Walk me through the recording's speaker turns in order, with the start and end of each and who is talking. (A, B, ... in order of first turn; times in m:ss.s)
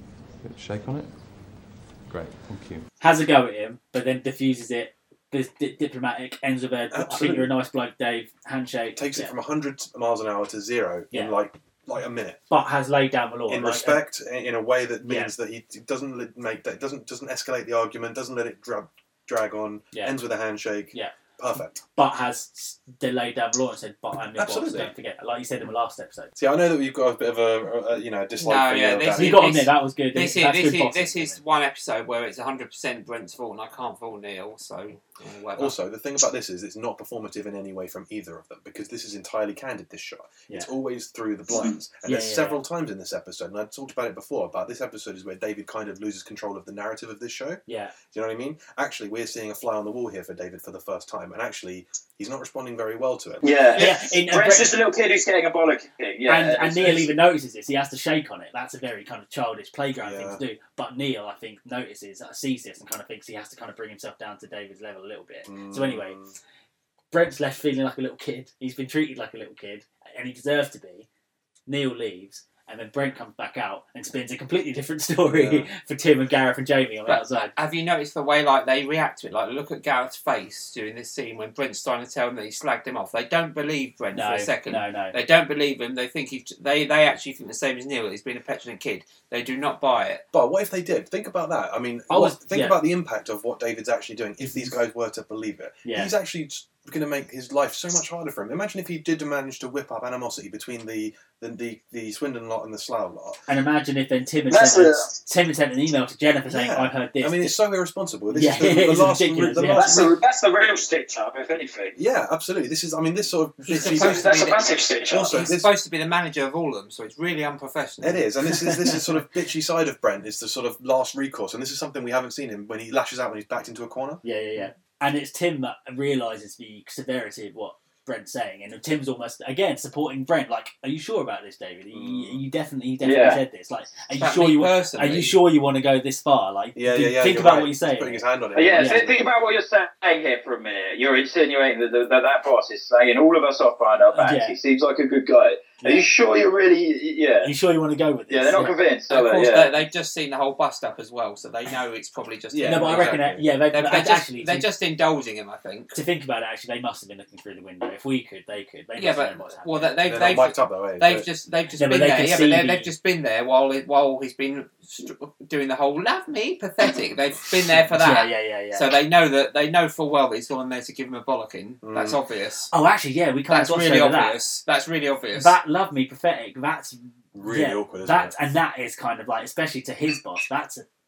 0:00.4-0:02.8 A
0:03.0-0:09.3 B
0:06.9-0:07.5 C
0:09.0-0:12.4 C
0:12.5-0:14.0 B
0:13.5-0:21.8 C
0:15.0-0:15.3 B
0:21.8-0:26.3 B
0:24.4-0:24.9 C
0:26.4-0:29.5 C
0:28.4-0:35.7 D
0:29.1-0:31.4 B
0:35.6-0:53.5 C
0:41.5-0:41.8 E
0:42.0-0:42.6 B
0:47.7-0:47.9 B
0:53.4-0:57.1 E
0:53.8-0:54.7 B
0:56.3-1:06.2 B
1:00.0-1:00.4 C
1:05.4-1:06.4 C
1:07.1-1:11.1 B
1:11.7-1:17.5 B
1:15.3-1:15.7 C
1:17.1-1:30.2 D
1:24.1-1:25.2 B
1:30.3-1:43.4 C
1:32.1-1:32.8 B
1:34.4-1:34.8 B
1:35.8-1:36.1 B
1:43.5-1:47.5 B
1:44.5-1:45.1 E
1:46.5-1:50.2 C
1:48.3-1:49.9 B
1:49.7-1:51.9 E
1:51.9-1:54.4 C
1:53.7-1:54.6 D
1:53.9-1:55.3 E
1:55.1-1:55.7 C
1:55.3-1:58.2 D
1:58.0-2:04.2 C
2:04.2-2:19.2 B
2:11.9-2:12.4 C
2:13.0-2:13.4 E
2:14.1-2:15.4 D
2:16.8-2:19.0 C
2:18.5-2:27.5 E
2:24.1-2:24.6 B
2:25.8-2:26.1 B
2:27.4-2:28.7 B
2:28.3-2:29.7 E
2:29.1-2:33.2 D
2:32.5-2:33.5 C
2:32.6-2:34.7 B
2:33.7-2:36.0 D
2:35.9-2:40.0 B
2:39.0-2:52.7 D
2:40.0-2:41.2 C
2:41.8-2:42.9 B
2:47.9-2:48.8 B
2:51.8-2:52.2 C
2:52.7-2:54.4 B
2:53.5-2:55.6 D
2:55.3-3:00.8 B
2:57.3-2:58.3 C